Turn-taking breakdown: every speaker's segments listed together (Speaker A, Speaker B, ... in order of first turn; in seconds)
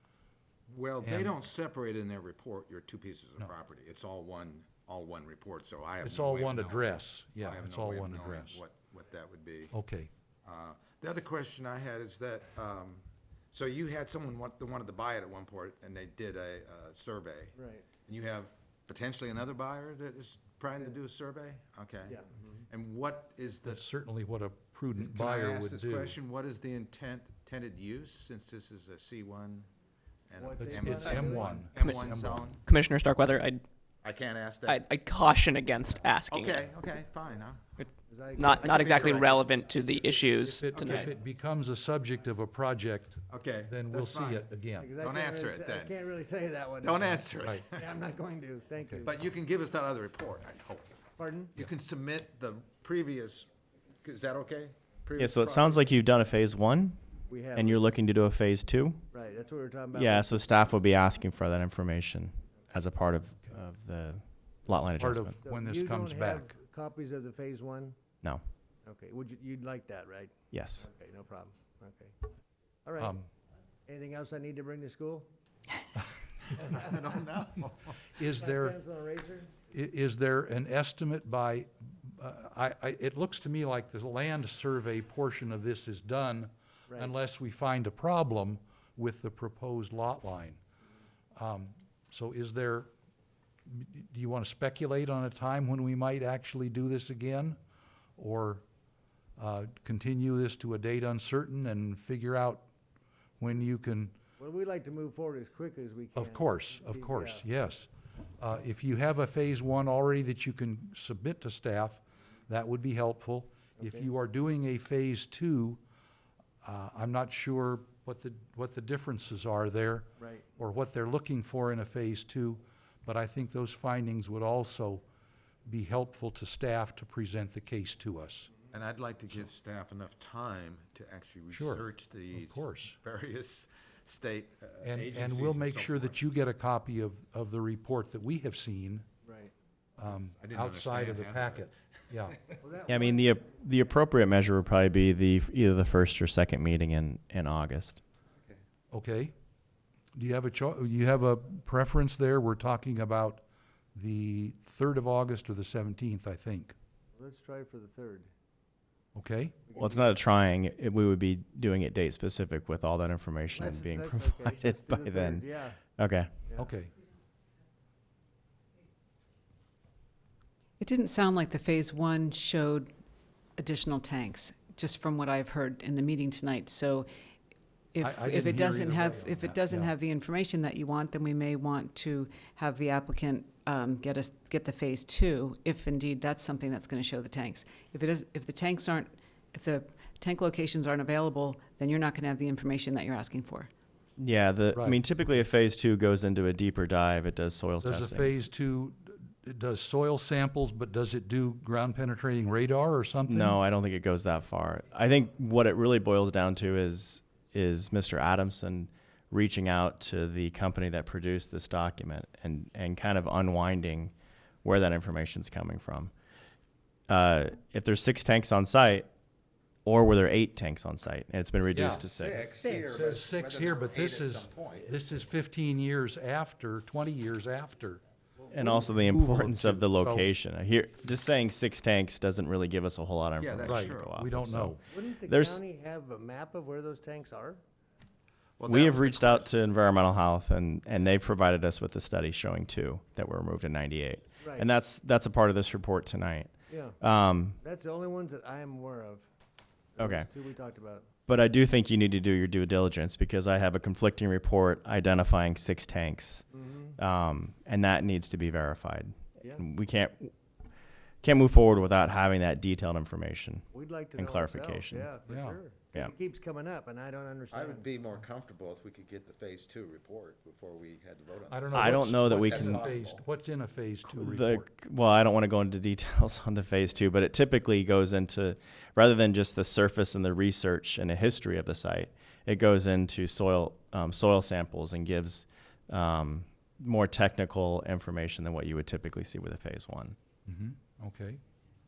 Speaker A: 0.7-9.7, 10.4-17.5, 18.1-23.8, 25.0-29.7, 30.3-32.7, 34.0-34.9, 36.3-37.8, 38.4-39.3, 40.7-41.1, 43.3-44.4, 45.0-45.9, 46.8-47.8, 49.0-51.0, 51.6-53.5, 54.0-55.9, 76.5-78.0, 128.7-136.2, 140.2-141.7, 142.3-142.6, 222.0-225.0, 233.4-234.1, 238.6-239.6, 267.5-273.2
Speaker B: 1.0-1.3, 6.0-8.6, 9.7-10.1, 23.6-26.2, 30.6-32.5, 40.5-44.9, 65.0-66.5, 73.0-73.3, 78.2-78.8, 79.7-90.6, 91.4-92.9, 93.7-97.6, 98.2-98.6, 99.4-102.7, 103.4-104.2, 106.2-115.8, 116.6-125.0, 125.7-128.5, 131.5-133.0, 134.8-139.1, 140.0-142.4, 148.9-149.3, 150.2-153.4, 153.9-156.7, 159.2-159.6, 166.6-166.9, 178.0-179.9, 194.7-195.0, 197.8-203.6, 221.7-222.1, 222.7-228.0, 228.7-230.3, 233.7-234.8, 265.3-265.6, 271.5-274.7, 290.5-291.4
Speaker C: 17.6-17.9, 22.1-22.6, 30.4-31.7, 38.1-39.7, 44.8-49.2, 51.2-51.6, 57.3-57.9, 59.1-60.7, 65.5-68.0, 68.8-72.2, 72.8-73.2, 73.9-75.3, 76.6-76.9, 78.2-79.5, 86.9-87.1, 104.4-107.5, 113.8-114.1, 120.2-120.5, 139.2-139.5, 142.6-143.3, 157.2-158.3, 159.7-160.1, 163.6-165.8, 166.5-166.7, 222.6-223.1, 228.4-229.1, 234.9-237.6, 244.4-244.7, 246.7-247.0, 247.6-249.3, 250.0-251.1, 256.6-257.0, 263.7-267.9
Speaker D: 31.8-32.1, 32.6-33.6, 34.7-36.7, 37.8-41.0
Speaker E: 55.2-57.0, 57.5-59.0, 59.9-65.3, 70.5-70.8, 142.9-148.0, 159.8-165.5, 166.0-166.3, 194.2-198.5, 203.3-214.1, 214.6-216.1, 217.1-219.1, 219.8-222.7, 228.5-235.6, 238.6-247.6, 250.0-250.3, 251.3-260.3, 261.2-265.1, 271.7-273.0, 274.1-290.2
Speaker F: 170.8-172.9, 173.6-177.1, 177.9-193.7